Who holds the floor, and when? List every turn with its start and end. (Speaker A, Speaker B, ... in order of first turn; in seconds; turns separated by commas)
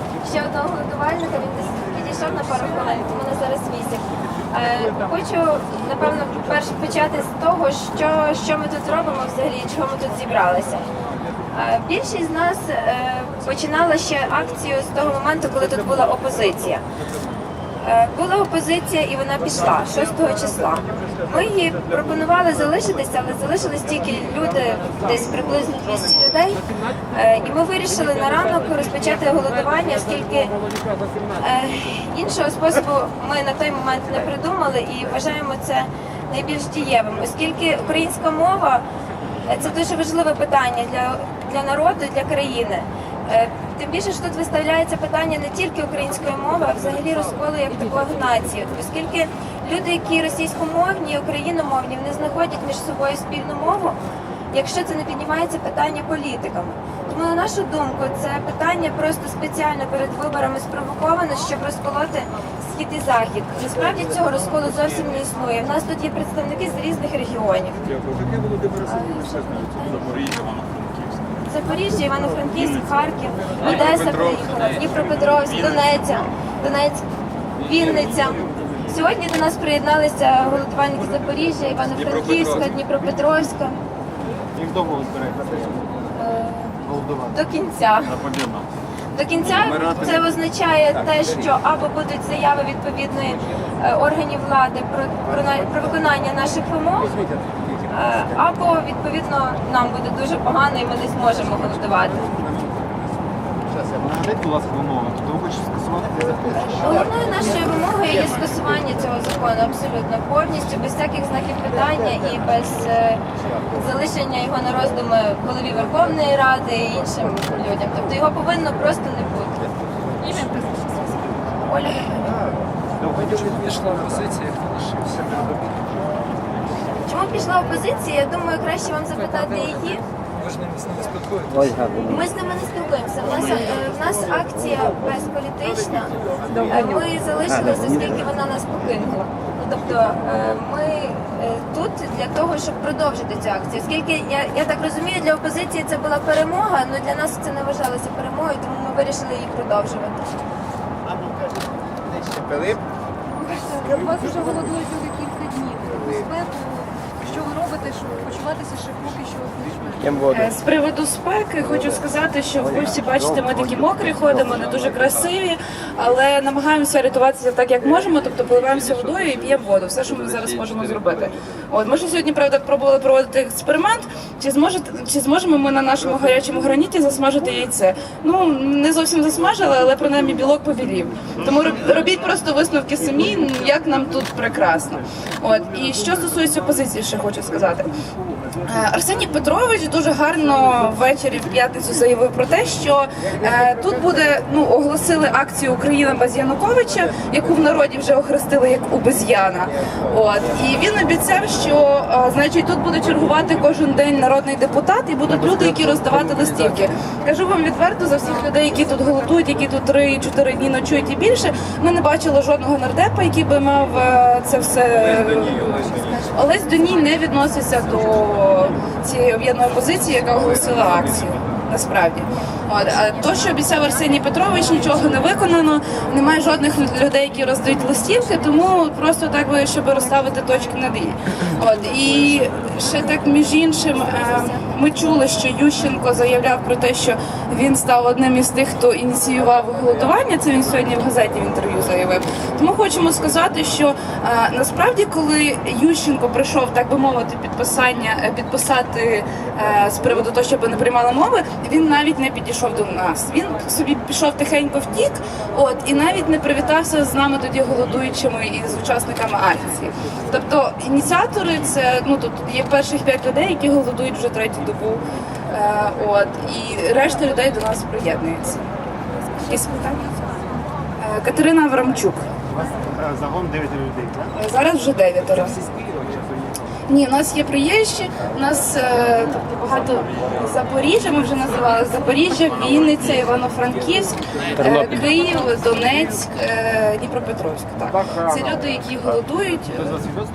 Speaker A: 0.2-10.8, Speaker A: 11.5-16.8, Speaker A: 17.8-30.6, Speaker A: 31.4-38.9, Speaker A: 39.5-54.0, Speaker A: 54.5-67.9, Speaker A: 68.8-70.4, Speaker A: 71.4-77.0, Speaker A: 77.6-83.8, Speaker B: 84.6-85.6, Speaker A: 86.2-88.2, Speaker A: 89.1-97.1, Speaker A: 97.9-102.3, Speaker B: 104.1-106.1, Speaker A: 106.5-119.6, Speaker C: 120.2-121.2, Speaker A: 121.7-122.4, Speaker D: 123.6-125.2, Speaker A: 127.0-130.0, Speaker D: 130.4-131.8, Speaker A: 132.0-150.4, Speaker A: 153.5-154.6, Speaker C: 153.9-160.1, Speaker E: 160.3-187.9, Speaker E: 188.6-268.6, Speaker E: 269.4-270.0, Speaker E: 271.0-272.3, Speaker E: 274.3-275.6, Speaker E: 276.9-290.1